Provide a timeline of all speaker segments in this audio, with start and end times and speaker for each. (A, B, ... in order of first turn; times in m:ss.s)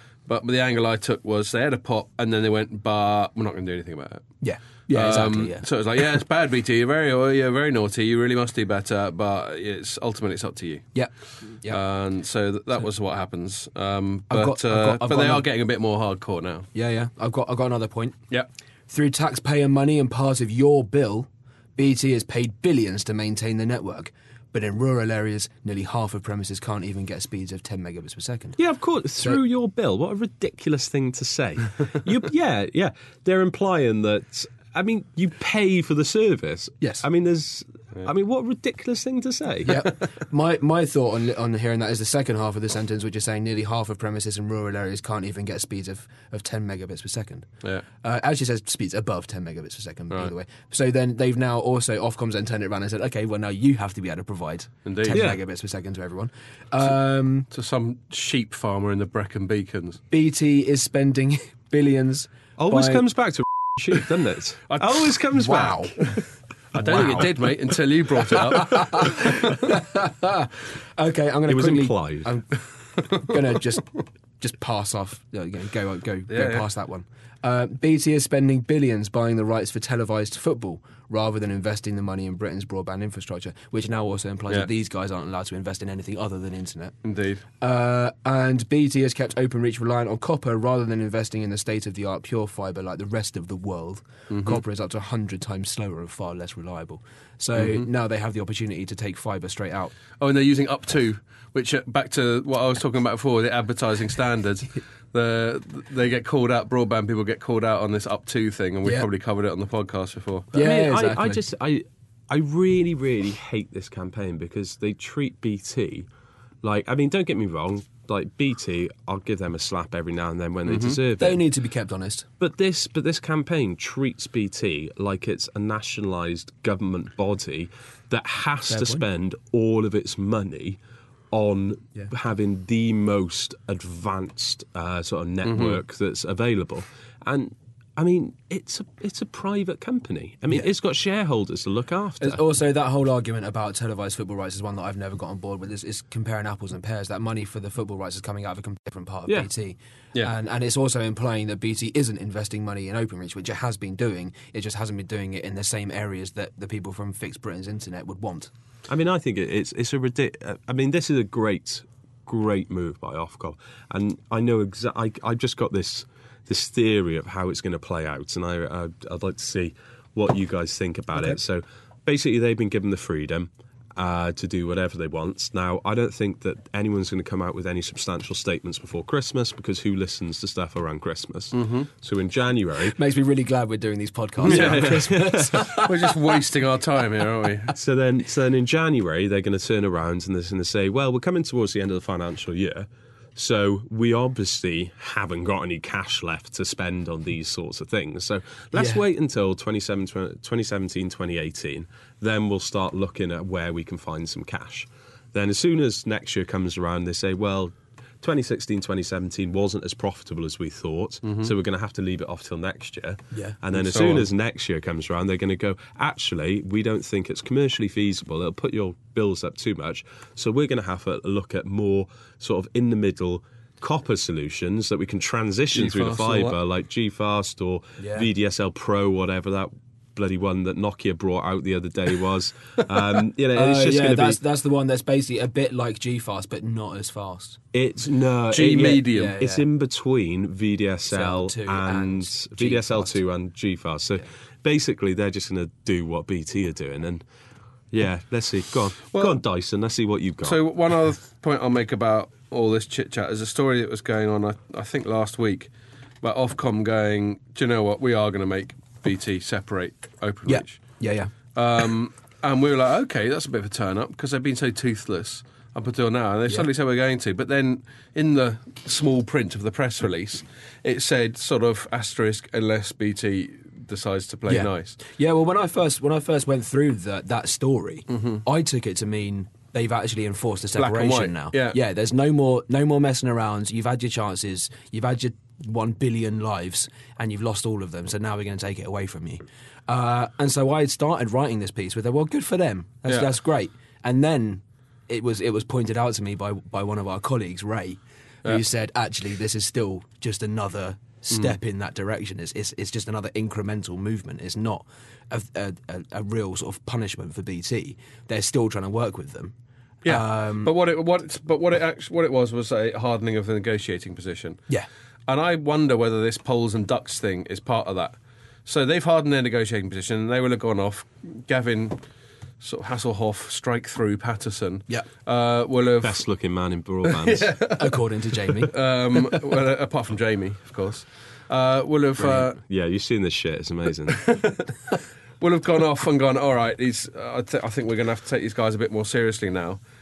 0:00.3-0:04.3 A
0:04.4-0:05.7 B
0:04.9-0:10.9 A
0:11.0-0:11.8 B
0:11.7-0:16.7 A
0:14.3-0:15.4 B
0:16.7-0:18.2 B
0:18.9-0:28.6 B
0:28.6-0:39.9 C
0:39.6-0:47.5 B
0:48.0-0:57.5 B
0:54.8-0:55.2 A
0:55.1-0:55.4 C
0:57.5-1:00.0 A
1:00.1-1:03.0 B
1:02.6-1:06.0 C
1:04.7-1:05.2 A
1:05.3-1:06.0 B
1:06.7-1:09.6 A
1:06.8-1:07.5 B
1:06.8-1:07.3 C
1:08.3-1:27.0 B
1:11.5-1:12.4 C
1:16.3-1:16.7 A
1:27.0-1:27.4 A
1:27.6-1:40.0 B
1:34.3-1:34.6 A
1:37.6-1:37.9 A
1:40.2-1:50.5 A
1:50.5-1:51.4 B
1:50.6-1:56.1 C
1:56.6-2:01.4 C
2:00.7-2:01.0 A
2:01.2-2:02.3 B
2:02.4-2:10.8 C
2:08.7-2:09.0 B
2:11.3-2:22.4 C
2:15.4-2:15.8 A
2:22.2-2:38.5 B
2:38.9-3:03.0 C
3:01.5-3:01.9 A
3:02.8-3:06.4 B
3:04.4-3:05.7 C
3:04.4-3:07.7 A
3:07.7-3:54.4 C
3:18.7-3:19.0 B
3:33.3-3:33.6 B
3:33.8-3:34.3 A
3:45.8-3:46.6 A
3:48.0-3:48.3 B
3:53.5-3:57.6 B
3:57.7-4:07.2 C
3:58.5-3:59.4 A
3:58.9-3:59.7 B
4:01.1-4:03.2 B
4:07.9-4:10.6 C
4:09.1-4:09.4 A
4:10.4-4:15.7 A
4:16.2-4:20.8 A
4:20.5-4:21.3 B
4:21.6-4:35.0 A
4:34.5-5:09.5 B
4:38.1-4:38.4 A
4:40.8-4:41.8 A
5:10.0-5:14.6 A
5:10.0-5:10.7 B
5:15.3-5:22.0 A
5:22.6-5:26.2 A
5:26.0-5:27.6 C
5:27.0-5:28.0 A
5:27.8-5:29.4 B
5:28.6-5:32.6 A
5:32.5-5:34.3 C
5:34.1-5:34.7 A
5:35.4-5:39.8 A